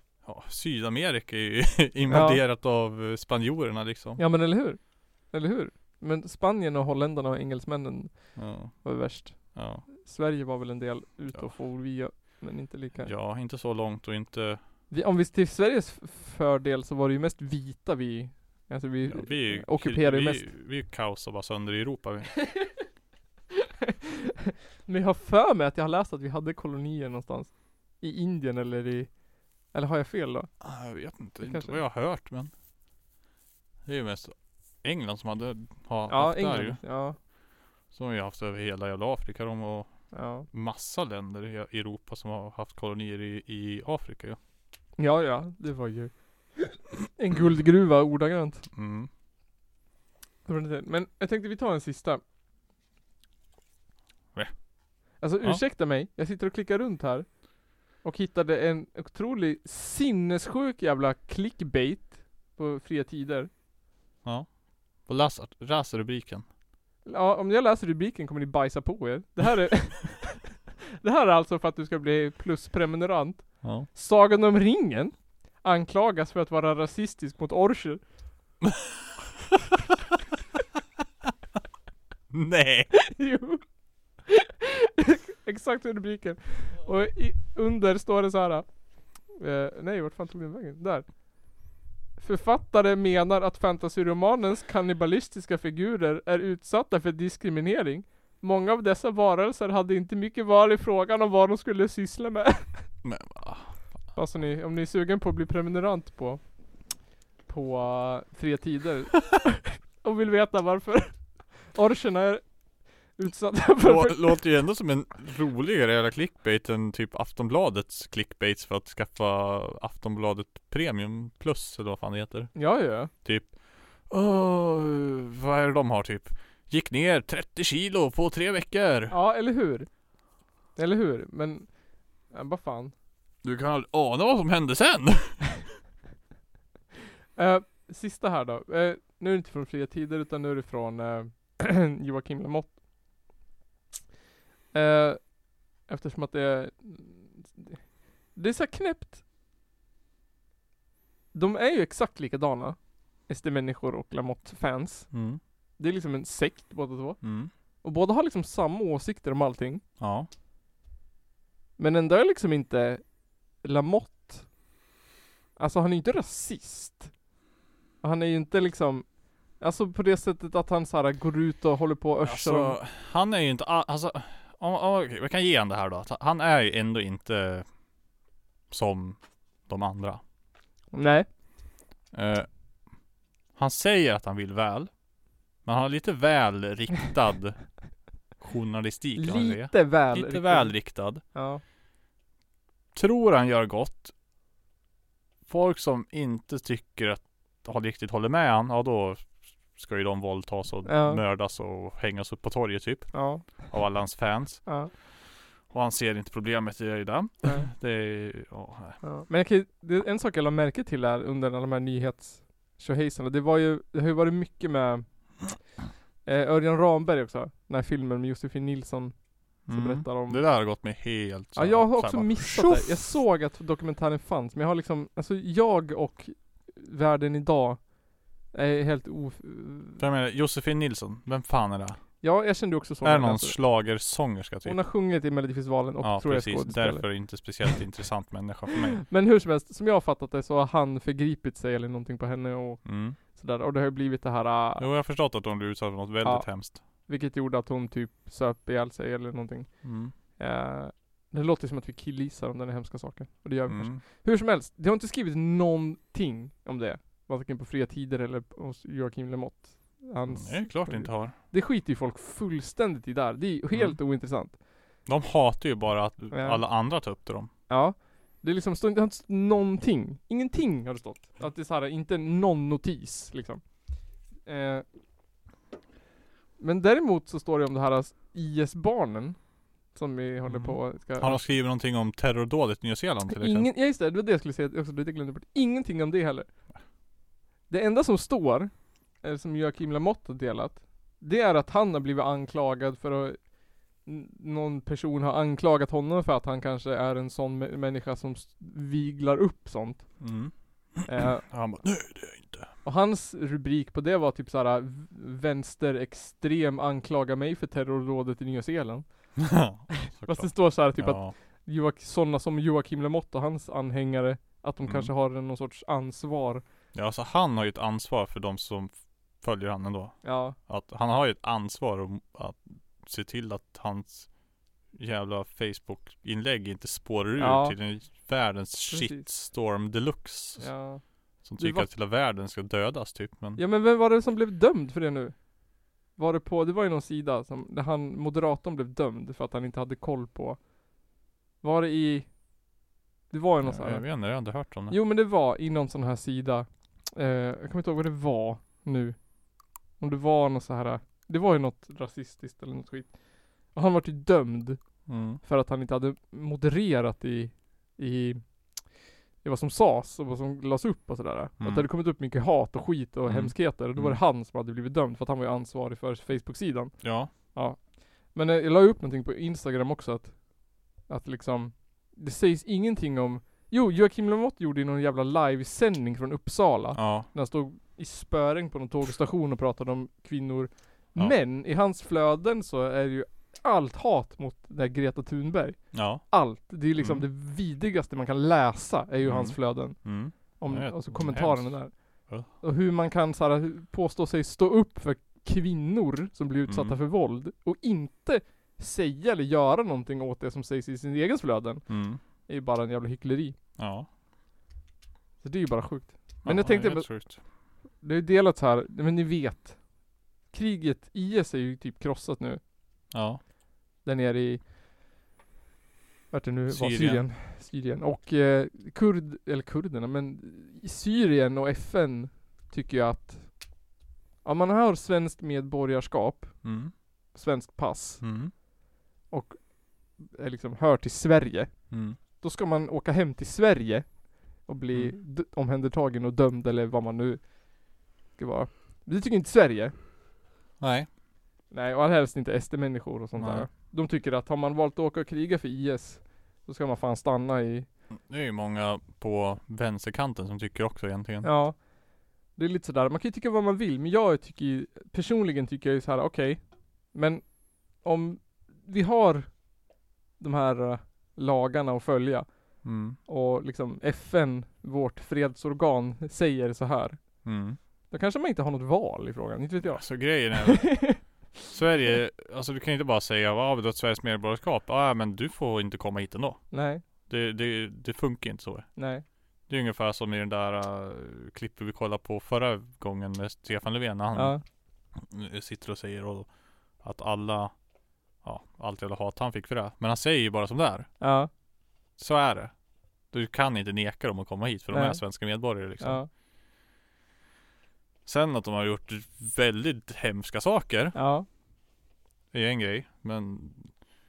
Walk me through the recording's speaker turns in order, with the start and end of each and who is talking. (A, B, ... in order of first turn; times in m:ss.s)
0:00.2-0:04.2 A
0:02.1-0:02.4 B
0:04.2-0:13.1 B
0:08.4-0:09.9 A
0:13.0-0:14.6 A
0:14.9-0:20.5 B
0:19.1-0:22.7 A
0:24.9-0:30.5 B
0:30.6-0:32.5 A
0:31.4-0:31.8 B
0:33.8-0:36.8 A
0:36.1-0:37.2 B
0:37.9-0:44.4 A
0:40.1-0:40.5 B
0:45.0-0:48.6 B
0:48.7-0:49.1 A
0:50.5-0:52.2 B
0:54.3-0:54.7 A
0:55.2-1:03.5 B
1:04.2-1:06.5 A
1:07.0-1:10.5 B
1:11.0-1:18.0 B
1:13.6-1:13.9 A
1:18.6-1:18.9 A
1:22.3-1:23.0 A
1:23.1-1:23.6 B
1:25.0-1:31.6 B
1:32.2-1:42.9 B
1:43.0-1:43.8 A
1:44.2-1:46.4 B
1:47.5-1:52.5 B
1:53.1-1:54.4 B
1:53.8-2:09.2 A
2:02.6-2:03.1 B
2:09.1-2:09.9 B
2:10.8-2:12.9 B
2:13.4-2:15.5 A
2:17.4-2:22.8 B
2:24.7-2:29.2 B
2:31.3-2:35.1 B
2:35.1-2:35.4 A
2:35.8-2:37.2 B
2:37.2-2:37.5 A
2:37.8-2:39.8 B
2:40.0-2:40.3 A
2:41.8-2:43.1 B
2:43.6-2:44.5 B
2:45.6-2:47.1 B
2:48.0-2:52.8 B
2:52.2-2:57.7 A
2:58.7-3:00.2 A
3:00.9-3:01.3 B
3:02.1-3:02.5 A
3:03.6-3:05.0 A
3:05.6-3:07.8 A
3:08.4-3:11.2 A
3:09.2-3:11.6 B
3:12.9-3:14.1 A
3:15.5-3:25.1 A
3:20.8-3:21.2 B
3:23.1-3:23.7 B
3:24.6-3:24.9 B
3:25.7-3:29.0 A
3:29.0-3:35.7 B
3:36.2-3:40.4 B
3:39.7-3:43.2 A
3:41.6-3:50.0 B
3:50.0-3:52.1 A
3:52.2-3:53.6 B
3:53.0-3:54.8 A
3:54.6-3:57.4 B
3:56.0-3:59.0 A
3:59.1-4:04.9 B
4:02.8-4:03.2 A
4:04.8-4:06.8 A
4:06.2-4:24.6 B
4:09.8-4:10.1 A
4:13.7-4:14.0 A
4:20.3-4:21.4 A
4:23.7-4:24.0 A
4:25.1-4:27.5 A
4:26.3-4:26.6 B
4:27.7-4:33.9 B
4:34.4-4:34.8 B
4:36.6-4:41.5 B
4:40.5-4:43.7 A
4:43.3-4:46.5 B
4:47.7-5:00.4 B
5:00.2-5:02.7 A
5:01.0-5:01.5 B
5:02.8-5:16.6 B
5:09.4-5:11.3 A
5:14.8-5:15.1 A
5:16.9-5:24.3 A
5:20.2-5:20.6 B
5:24.9-5:30.8 A
5:27.4-5:27.8 B
5:28.9-5:29.3 B
5:30.6-5:31.9 B
5:31.4-5:33.6 A
5:33.6-5:40.8 B
5:41.6-5:42.4 B
5:43.3-6:43.6 B
5:43.6-5:45.0 A
5:55.1-5:55.4 A
6:01.6-6:01.9 A
6:03.3-6:04.2 A
6:07.0-6:07.3 A
6:16.9-6:17.3 A
6:25.9-6:26.2 A
6:27.0-6:27.3 A
6:29.2-6:32.5 A
6:36.7-6:37.0 A
6:41.9-6:42.2 A
6:43.8-6:44.1 A
6:45.4-6:47.3 B
6:46.4-6:47.4 A
6:48.0-6:49.9 B
6:50.5-6:52.6 B
6:53.1-6:53.4 A
6:54.0-6:54.7 B
6:56.3-7:03.8 B
6:56.7-6:57.3 A
7:04.4-7:08.3 B
7:06.6-7:06.9 A
7:08.2-7:08.5 A
7:09.3-7:20.0 B
7:11.9-7:12.2 A
7:20.8-7:21.1 A
7:21.7-7:27.9 B
7:23.4-7:23.7 A
7:28.1-7:31.5 A
7:31.4-7:39.8 B
7:40.4-7:47.5 B
7:42.8-7:43.2 A
7:47.4-7:47.8 A
7:48.1-7:51.4 B
7:49.9-7:59.0 A
7:56.7-7:57.0 B
7:59.0-7:59.2 B
7:59.7-8:04.6 A
8:04.4-8:04.6 B
8:05.1-8:07.8 A
8:08.4-8:11.1 A
8:11.2-8:11.5 B
8:12.2-8:16.2 A
8:14.9-8:16.3 B
8:18.3-8:21.2 A
8:21.2-8:21.5 B
8:22.5-8:23.9 A